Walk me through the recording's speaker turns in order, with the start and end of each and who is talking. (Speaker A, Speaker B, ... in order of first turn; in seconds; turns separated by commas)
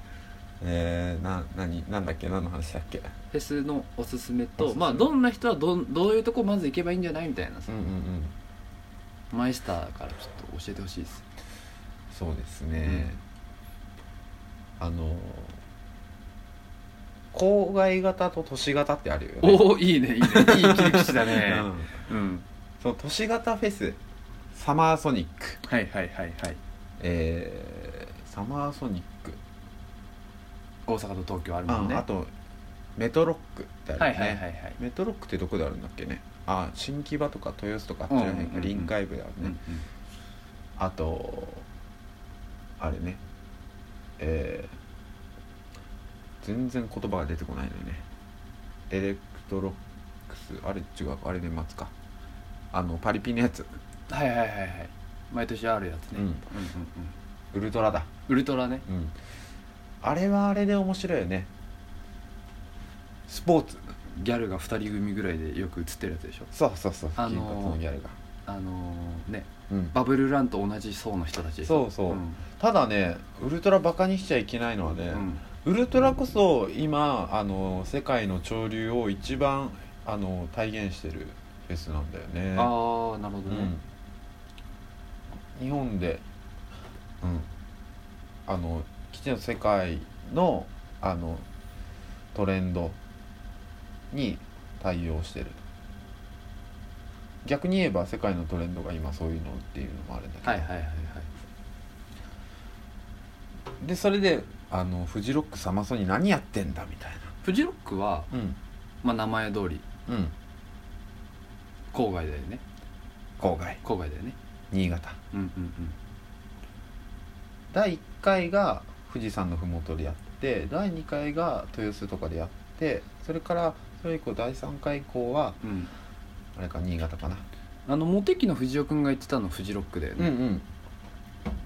Speaker A: 0.6-3.1, Speaker B: 3.3-7.7, Speaker A: 4.6-5.1, Speaker A: 7.7-8.3, Speaker B: 9.3-11.2, Speaker A: 12.1-13.2, Speaker B: 12.8-13.1, Speaker A: 14.8-15.6, Speaker A: 17.3-22.0, Speaker B: 19.4-22.4, Speaker A: 22.8-24.0, Speaker A: 24.5-25.6, Speaker B: 25.7-26.6, Speaker A: 27.0-29.4, Speaker B: 30.9-32.0, Speaker A: 31.7-32.3, Speaker A: 33.0-39.6, Speaker B: 34.0-34.8, Speaker B: 38.1-39.8, Speaker A: 40.8-41.7, Speaker A: 42.8-43.2, Speaker A: 44.2-44.7, Speaker A: 46.4-48.1, Speaker A: 48.9-51.9, Speaker A: 52.7-53.7, Speaker B: 54.1-57.1, Speaker A: 56.1-56.4, Speaker A: 57.5-58.1, Speaker B: 58.3-58.9, Speaker A: 58.9-59.1, Speaker A: 60.0-61.5, Speaker A: 63.3-63.8, Speaker B: 64.1-66.5, Speaker A: 66.5-68.2, Speaker B: 67.2-67.8, Speaker B: 68.5-72.5, Speaker A: 69.7-70.0, Speaker A: 71.6-82.7, Speaker B: 75.1-75.4, Speaker B: 82.6-83.7, Speaker A: 83.5-83.8, Speaker A: 85.6-86.2, Speaker A: 87.2-87.5, Speaker A: 88.5-91.5, Speaker A: 92.3-93.0, Speaker A: 94.1-95.6, Speaker A: 97.4-100.7, Speaker B: 100.4-101.3, Speaker A: 103.8-107.3, Speaker B: 107.4-108.3, Speaker A: 108.3-108.6, Speaker B: 109.0-109.8, Speaker A: 110.1-110.3, Speaker B: 111.9-112.6, Speaker A: 113.4-113.8, Speaker B: 113.8-114.4, Speaker A: 114.7-115.2, Speaker B: 115.3-116.0, Speaker A: 117.7-125.6, Speaker B: 125.6-125.9, Speaker A: 126.6-127.5, Speaker B: 127.9-130.3, Speaker A: 130.2-130.7